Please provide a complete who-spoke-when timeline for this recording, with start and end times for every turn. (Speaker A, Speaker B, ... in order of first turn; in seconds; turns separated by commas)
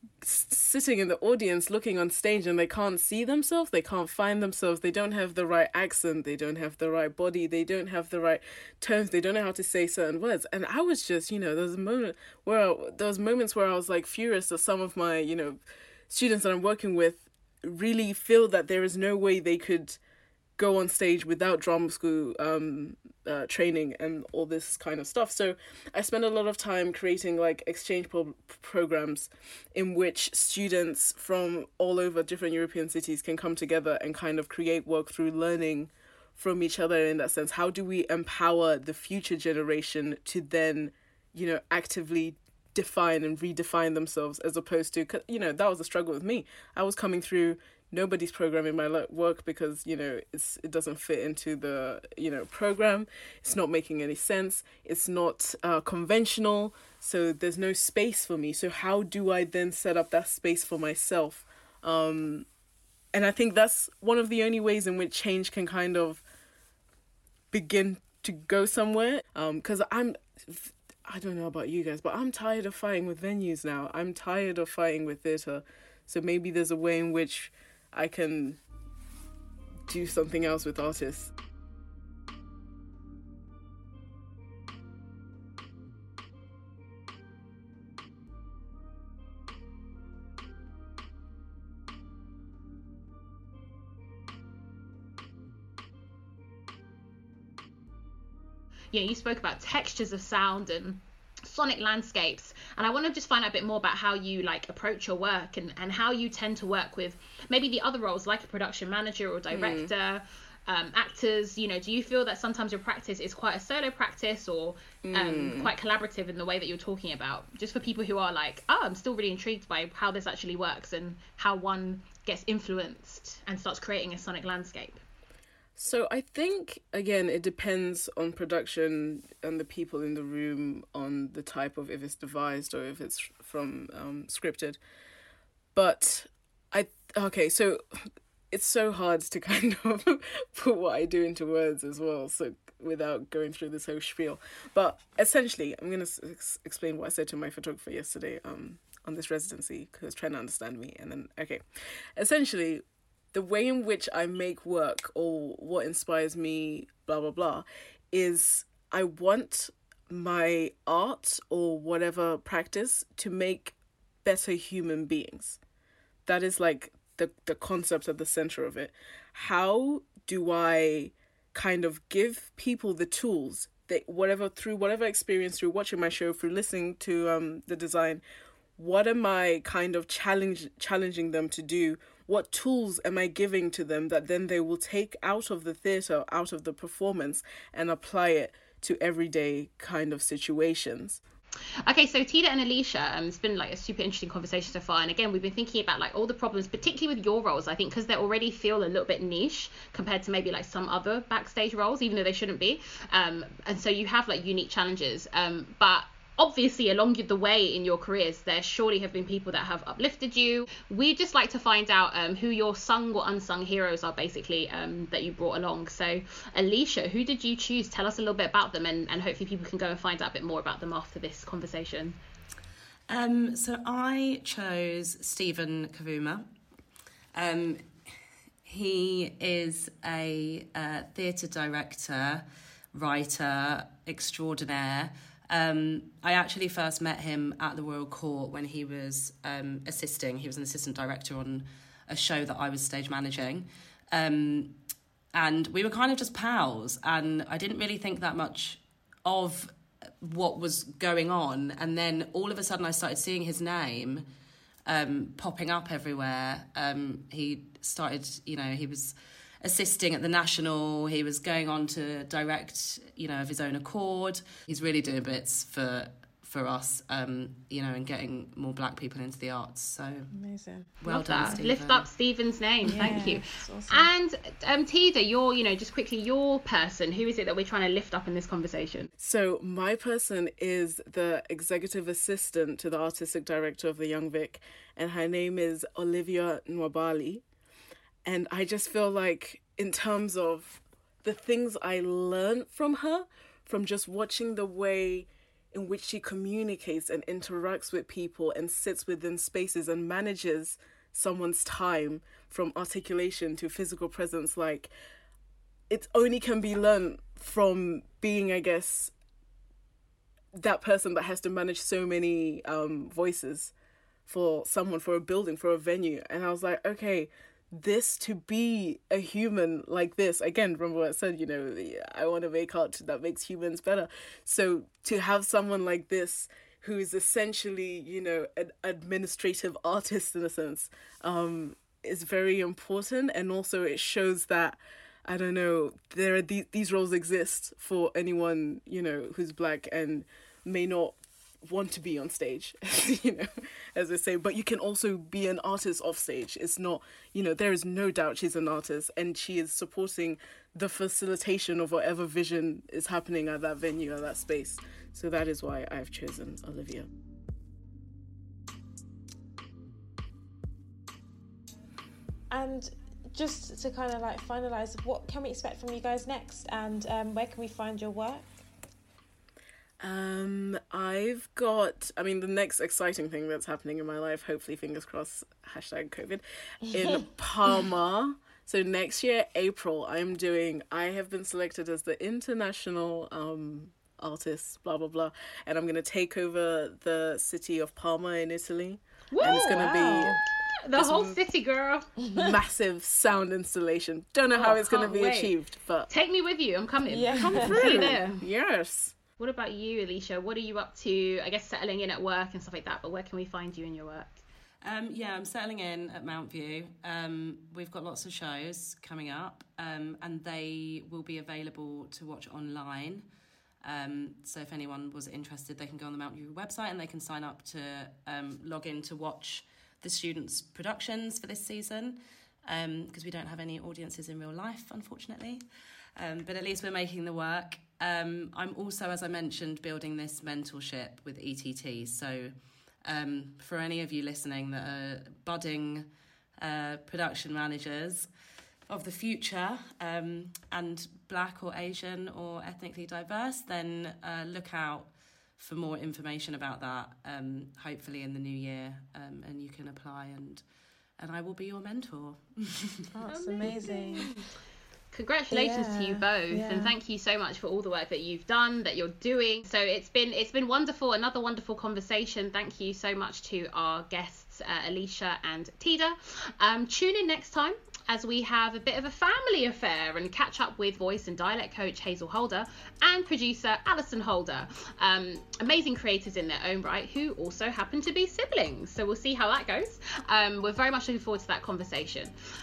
Speaker A: 0.2-20.0, Speaker A: 20.6-62.5, Speaker A: 63.1-66.2, Speaker A: 67.5-78.6, Speaker A: 79.9-81.3, Speaker B: 98.9-125.0, Speaker A: 109.5-109.9, Speaker A: 115.0-115.7, Speaker A: 125.8-134.8, Speaker A: 135.7-151.6, Speaker A: 152.2-165.6, Speaker A: 166.2-178.2, Speaker A: 178.8-191.2, Speaker B: 191.8-222.2, Speaker C: 223.1-226.4, Speaker C: 227.3-227.8, Speaker C: 228.7-244.8, Speaker C: 245.3-254.2, Speaker C: 254.9-270.3, Speaker D: 270.3-270.9, Speaker C: 271.0-272.1, Speaker B: 271.0-279.1, Speaker D: 272.9-274.1, Speaker A: 279.2-287.4, Speaker A: 288.2-304.9, Speaker A: 305.9-309.1, Speaker A: 310.5-313.7, Speaker A: 314.3-357.1, Speaker D: 362.5-368.5, Speaker A: 370.0-390.4, Speaker B: 389.3-390.1, Speaker D: 389.6-390.4, Speaker B: 390.8-392.1, Speaker A: 390.9-391.4, Speaker D: 392.2-392.5, Speaker A: 392.3-396.1, Speaker B: 394.5-395.5, Speaker B: 396.1-398.4, Speaker D: 397.1-398.0, Speaker A: 397.3-399.1, Speaker B: 399.4-404.4, Speaker C: 404.8-413.2, Speaker C: 413.8-425.6, Speaker C: 426.1-432.5, Speaker C: 433.0-436.1, Speaker C: 436.6-438.3, Speaker C: 438.9-450.6, Speaker C: 451.2-453.1, Speaker D: 453.1-454.3, Speaker B: 453.3-454.4, Speaker B: 455.1-482.3, Speaker D: 455.5-456.9